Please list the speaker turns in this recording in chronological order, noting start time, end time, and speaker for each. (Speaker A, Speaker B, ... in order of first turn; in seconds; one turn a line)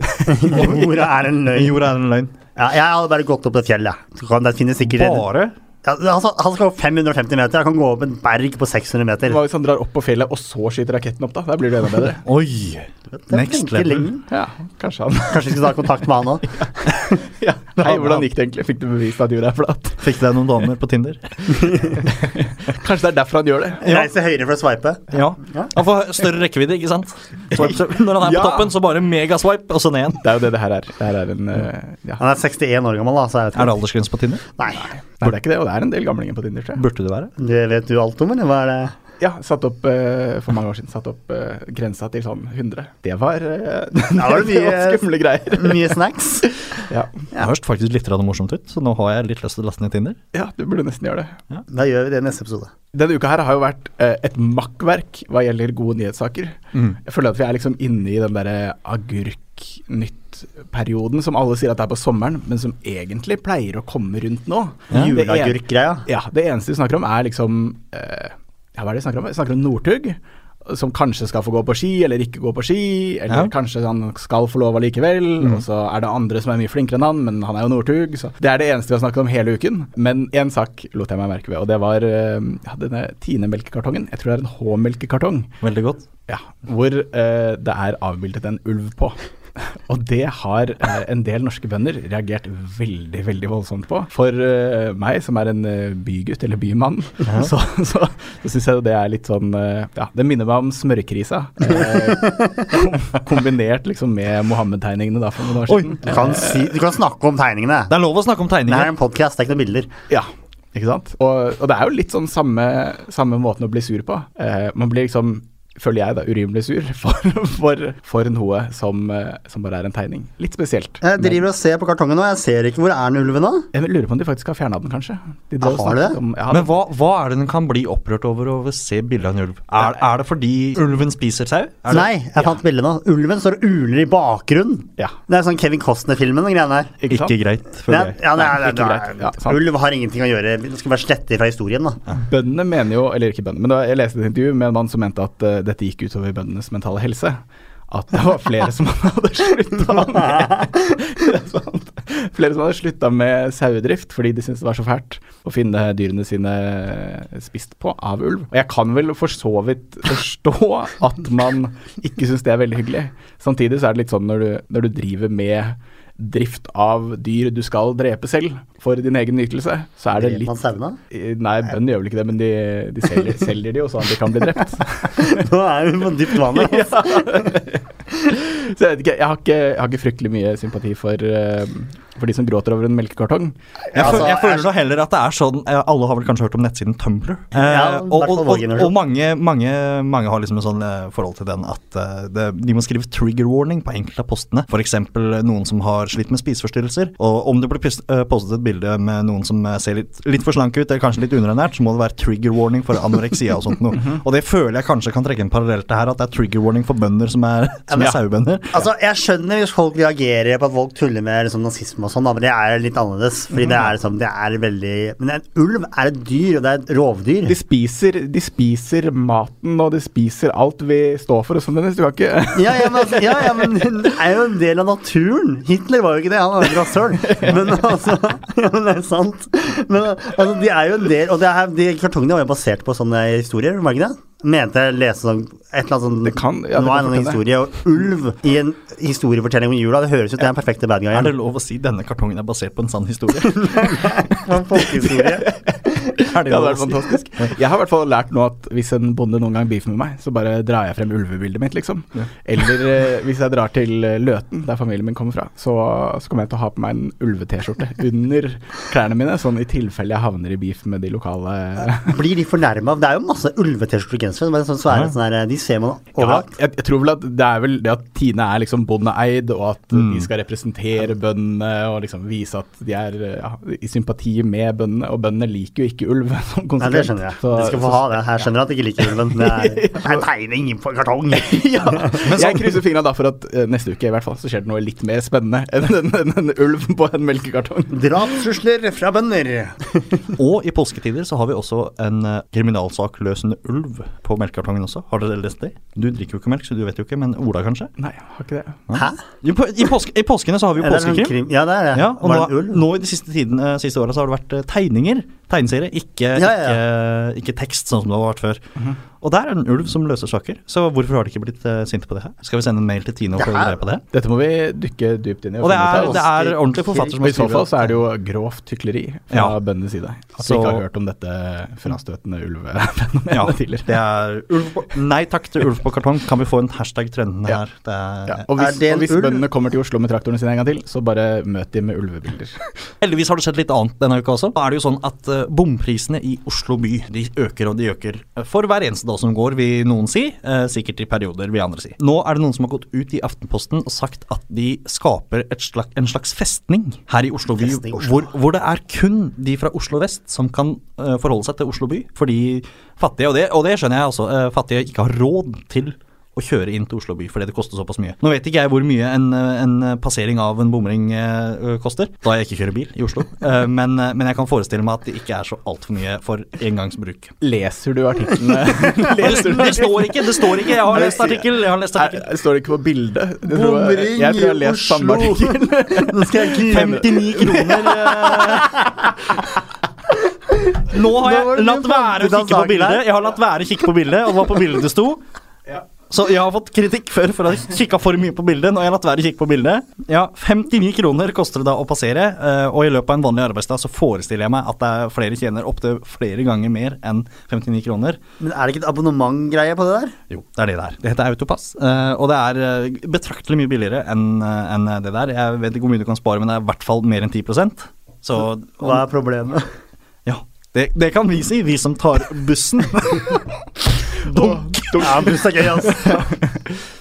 Speaker A: 0.2-1.8
Speaker B: 0.3-2.3
Speaker A: 2.6-5.2
Speaker B: 4.8-5.5
Speaker A: 5.8-9.4
Speaker C: 9.2-12.2
Speaker B: 12.2-14.1
Speaker A: 13.1-14.2
Speaker C: 14.3-16.0
Speaker A: 15.3-16.6
Speaker C: 16.5-20.1
Speaker B: 17.8-18.3
Speaker B: 20.0-21.9
Speaker C: 21.8-23.8
Speaker B: 23.8-24.1
Speaker A: 23.8-25.7
Speaker B: 25.1-30.3
Speaker C: 27.5-28.8
Speaker C: 30.2-32.2
Speaker A: 32.2-33.8
Speaker B: 33.5-34.4
Speaker A: 34.5-34.9
Speaker C: 34.8-36.8
Speaker B: 36.8-37.3
Speaker A: 37.4-39.0
Speaker C: 39.2-47.1
Speaker A: 44.1-46.5
Speaker B: 47.4-50.2
Speaker C: 50.3-51.3
Speaker A: 51.7-52.7
Speaker C: 52.9-85.5
Speaker A: 64.9-66.0
Speaker B: 85.6-86.0
Speaker C: 86.3-106.7
Speaker B: 97.3-97.5
Speaker A: 101.7-102.7
Speaker B: 105.7-106.0
Speaker A: 106.0-108.0
Speaker B: 107.9-108.9
Speaker A: 108.7-109.9
Speaker C: 110.1-121.4
Speaker A: 121.0-123.7
Speaker C: 123.7-126.7
Speaker A: 125.6-126.2
Speaker B: 126.5-132.5
Speaker A: 131.9-136.9
Speaker C: 137.0-137.3
Speaker B: 137.1-138.2
Speaker A: 137.9-142.0
Speaker C: 138.3-139.6
Speaker C: 142.2-170.5
Speaker A: 170.2-171.0
Speaker C: 171.1-175.4
Speaker A: 175.1-177.5
Speaker C: 176.3-183.5
Speaker A: 183.9-184.7
Speaker B: 183.9-208.8
Speaker A: 187.5-188.9
Speaker A: 207.9-208.2
Speaker A: 208.7-217.6
Speaker C: 217.5-223.7
Speaker A: 222.5-241.3
Speaker C: 227.3-227.7
Speaker C: 236.3-237.4
Speaker B: 241.1-244.2
Speaker A: 243.6-245.5
Speaker C: 244.7-262.2
Speaker B: 246.3-247.5
Speaker A: 262.0-266.5
Speaker C: 266.2-278.4
Speaker B: 269.9-270.3
Speaker A: 276.8-282.2
Speaker C: 279.0-280.2
Speaker C: 281.4-288.2
Speaker B: 282.2-282.8
Speaker A: 287.9-290.4
Speaker B: 290.4-297.9
Speaker C: 298.0-298.8
Speaker B: 298.9-301.4
Speaker A: 300.8-302.8
Speaker B: 301.9-308.6
Speaker A: 306.4-306.8
Speaker B: 309.2-314.0
Speaker A: 313.4-313.8
Speaker C: 314.1-324.0
Speaker B: 315.6-318.0
Speaker A: 315.9-316.6
Speaker B: 320.4-320.8
Speaker B: 323.3-328.5
Speaker C: 328.3-332.6
Speaker A: 328.6-329.5
Speaker B: 333.0-367.3
Speaker A: 347.5-348.3
Speaker C: 367.4-378.6
Speaker B: 369.1-372.2
Speaker A: 373.4-379.2
Speaker B: 376.7-378.8
Speaker A: 380.5-383.1
Speaker B: 380.8-385.2
Speaker B: 386.1-398.2
Speaker A: 398.4-400.1
Speaker B: 400.3-409.0
Speaker A: 408.8-409.6
Speaker B: 410.2-413.5
Speaker C: 414.2-416.8
Speaker A: 414.3-416.3